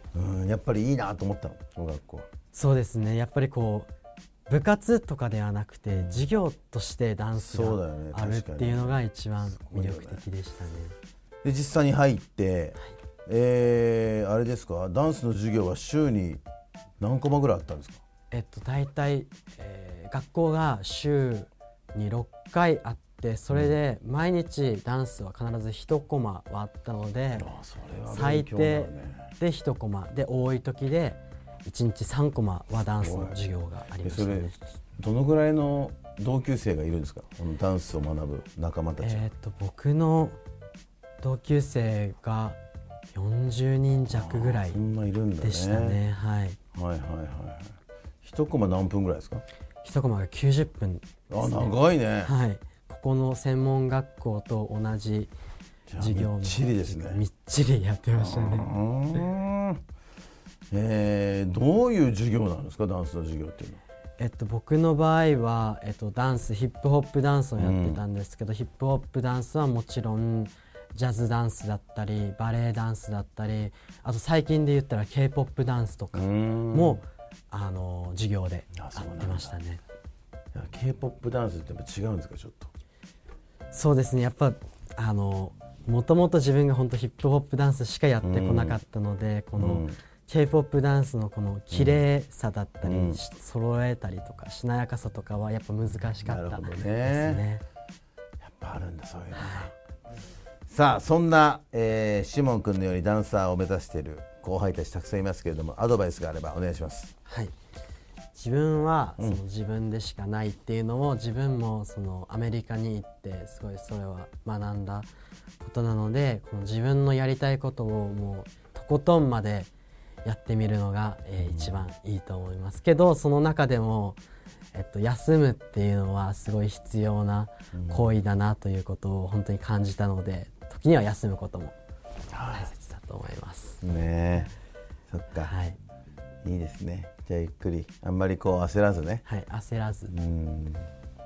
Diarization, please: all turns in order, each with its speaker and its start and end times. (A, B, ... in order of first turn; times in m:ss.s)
0:00.1-0:02.3 A
0:02.5-0:03.9 B
0:04.5-0:10.9 B
0:05.9-0:06.2 A
0:07.4-0:10.2 A
0:11.4-0:16.4 A
0:17.0-0:18.0 A
0:18.3-0:27.5 B
0:27.3-0:29.3 A
0:28.1-0:34.6 B
0:33.0-0:33.4 A
0:34.0-0:39.3 A
0:39.0-0:40.4 B
0:41.2-0:42.6 B
0:43.1-0:44.8 B
0:44.1-0:46.0 A
0:45.4-0:46.6 B
0:46.7-0:49.4 A
0:49.8-0:55.3 B
0:51.3-0:52.3 A
0:55.9-0:57.2 A
0:56.0-0:58.7 B
0:58.2-0:59.8 A
1:00.7-1:03.8 A
1:04.2-1:19.8 B
1:07.6-1:08.0 A
1:16.1-1:17.0 A
1:18.8-1:19.6 A
1:20.5-1:22.7 A
1:23.7-1:37.6 B
1:28.2-1:28.8 A
1:29.6-1:30.0 A
1:31.7-1:32.0 A
1:32.8-1:33.2 A
1:36.2-1:37.4 A
1:38.4-1:39.7 A
1:39.3-1:39.7 B
1:40.7-1:47.1 A
1:47.2-1:47.5 B
1:48.3-1:55.1 B
1:55.6-1:59.7 B
2:00.2-2:04.2 B
2:01.4-2:01.8 A
2:04.7-2:11.8 B
2:07.7-2:08.1 A
2:12.3-2:12.7 A
2:12.5-2:13.8 B
2:13.8-2:14.5 A
2:15.1-2:15.5 A
2:15.4-2:15.8 B
2:16.4-2:19.2 A
2:19.2-2:20.1 B
2:20.1-2:20.9 A